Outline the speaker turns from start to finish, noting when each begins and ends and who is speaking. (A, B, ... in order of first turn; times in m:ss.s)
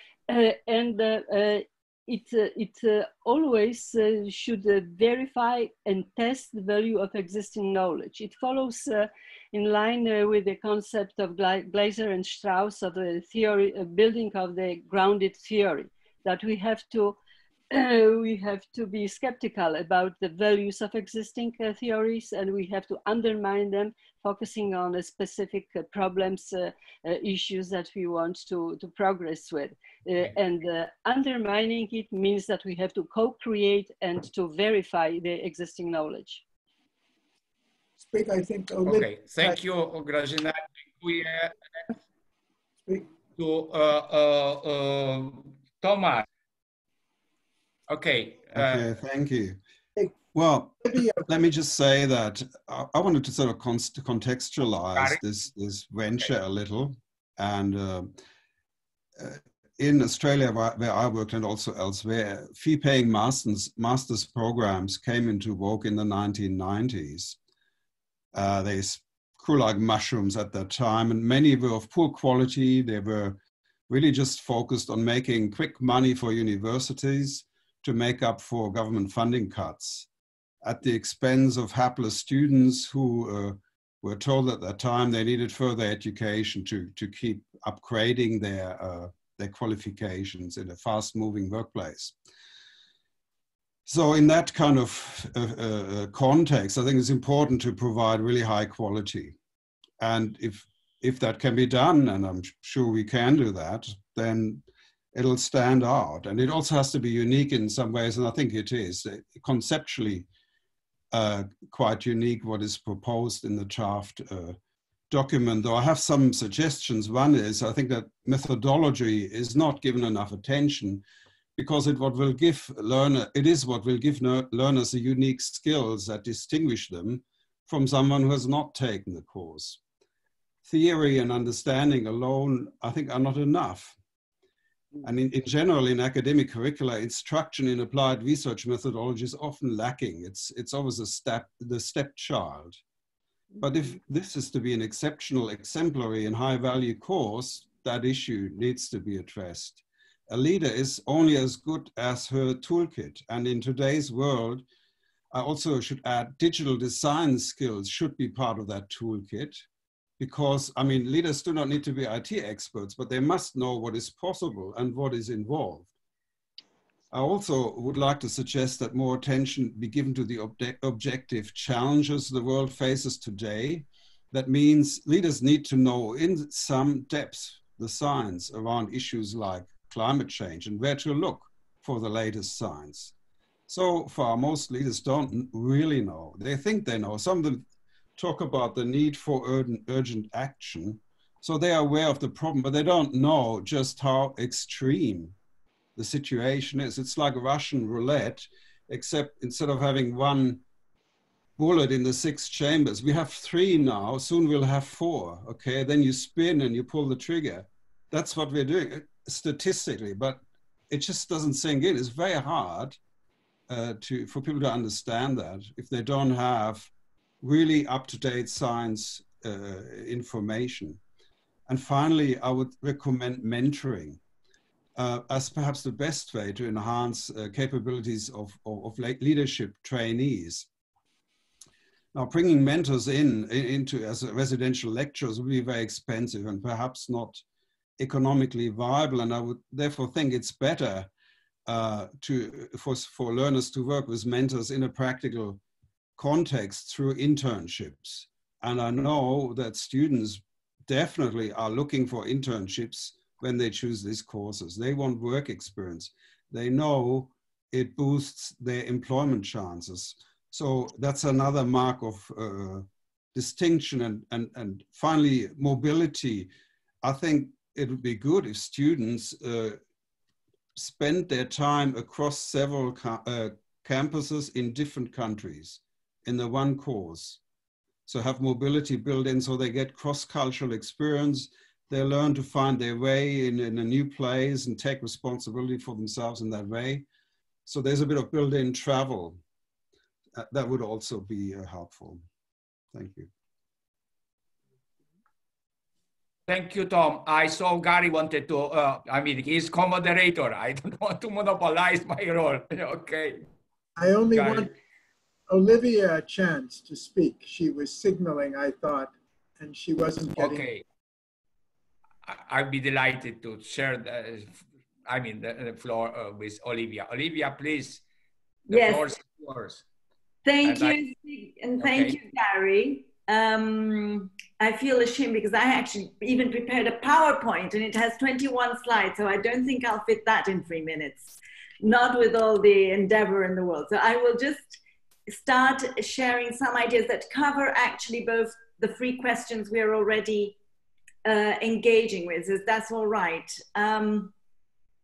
0:00.3-0:17.2 A
0:17.7-0:36.4 A
0:38.0-0:39.6 B
0:38.8-0:41.6 C
0:43.4-0:46.2 C
0:47.9-0:48.8 C
0:48.5-0:49.6 D
0:50.3-0:58.1 D
0:50.8-0:51.2 B
0:54.9-0:55.2 C
0:59.2-1:07.4 D
1:08.3-1:20.1 D
1:20.6-1:32.2 D
1:33.8-1:39.4 D
1:40.0-1:50.3 D
1:51.1-1:54.6 D
1:55.1-2:01.0 D
2:01.6-2:09.8 D
2:10.6-2:14.0 D
2:15.0-2:22.8 D
2:23.6-2:34.6 D
2:35.3-2:39.6 D
2:40.2-2:45.9 D
2:47.1-3:03.1 D
3:03.7-3:15.3 D
3:16.0-3:20.6 D
3:21.6-3:33.0 D
3:33.7-3:41.0 D
3:41.7-3:44.2 D
3:45.0-3:50.7 D
3:52.1-3:57.4 D
3:58.0-4:01.1 D
4:01.6-4:05.6 D
4:06.2-4:26.5 D
4:27.0-4:29.8 D
4:30.7-4:37.4 D
4:38.0-4:47.0 D
4:47.6-4:49.4 D
4:50.4-4:52.2 D
4:52.9-4:53.3 D
4:56.5-5:03.4 C
5:04.0-5:04.7 B
5:04.3-5:04.7 C
5:05.5-5:10.6 B
5:10.4-5:10.8 C
5:12.2-5:18.0 C
5:18.7-5:19.8 C
5:18.7-5:19.1 E
5:20.4-5:34.8 E
5:20.6-5:21.0 C
5:21.8-5:22.1 C
5:35.3-5:40.6 E
5:41.2-5:44.3 E